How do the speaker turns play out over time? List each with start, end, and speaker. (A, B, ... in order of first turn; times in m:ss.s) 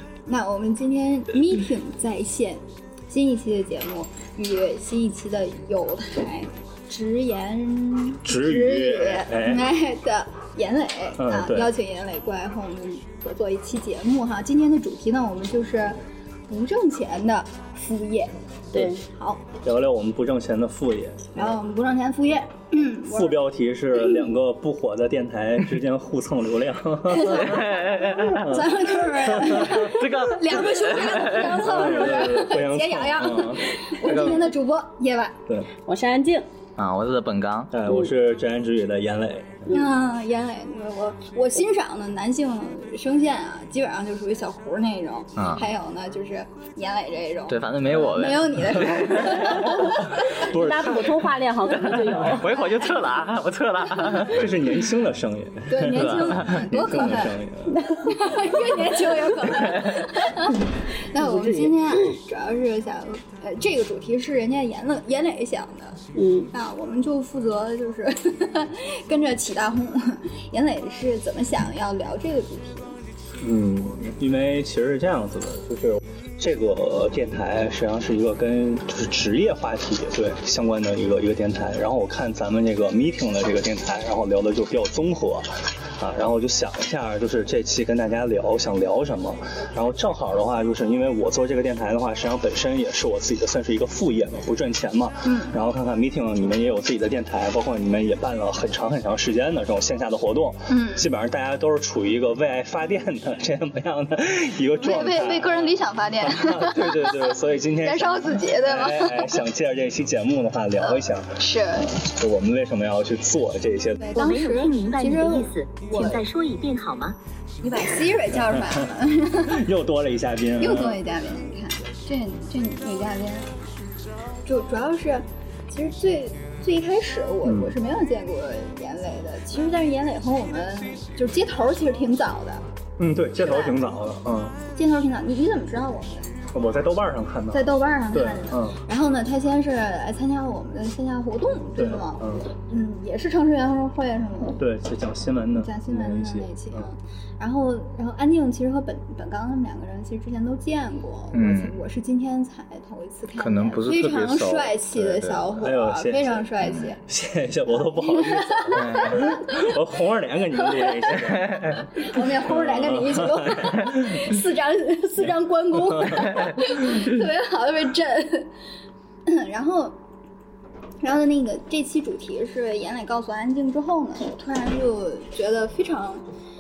0:00.3-0:19.5 A
0:08.2-0:09.7 B
0:11.2-0:11.7 B
0:18.7-0:19.0 C
0:19.6-0:21.6 B
0:21.4-0:23.4 A
0:23.1-0:27.7 B
0:24.0-0:24.3 A
0:27.1-0:35.4 A
0:27.3-0:28.5 D
0:28.3-0:30.0 B
0:29.4-0:31.7 D
0:31.5-0:33.8 B
0:34.0-0:34.6 D
0:35.9-0:36.5 C
0:36.8-0:37.7 D
0:37.7-0:39.8 B
0:37.9-0:38.1 C
0:39.7-0:50.5 A
0:45.4-0:45.6 D
0:47.5-0:49.9 D
0:49.9-0:51.4 B
0:50.4-0:52.6 C
0:51.9-0:54.5 D
0:54.2-0:57.8 B
0:55.7-0:57.4 A
0:55.9-0:56.6 D
0:57.7-0:58.3 C
0:58.0-1:06.0 A
0:59.8-1:00.1 D
1:01.2-1:02.1 C
1:06.2-1:06.5 C
1:06.5-1:12.9 A
1:13.4-1:54.1 B
1:35.3-1:35.6 A
1:40.7-1:41.1 A
1:44.8-1:49.4 A
1:50.8-1:52.0 A
1:54.0-1:56.2 A
1:54.1-1:57.2 E
1:57.6-1:59.7 A
1:58.3-2:01.0 B
2:00.6-2:03.6 A
2:04.5-2:12.6 A
2:07.4-2:07.8 B
2:13.0-2:14.6 B
2:13.4-2:14.0 A
2:14.7-2:16.4 A
2:16.5-2:18.8 B
2:17.5-2:24.6 A
2:21.8-2:22.5 B
2:24.6-2:26.9 B
2:25.6-2:37.0 A
2:31.3-2:31.8 D
2:33.4-2:35.5 D
2:35.5-2:36.5 B
2:37.1-2:44.3 B
2:38.0-2:39.7 A
2:38.7-2:39.2 D
2:40.7-2:41.2 A
2:41.9-2:48.5 A
2:45.7-2:46.4 B
2:49.3-2:50.0 A
2:51.0-2:56.2 A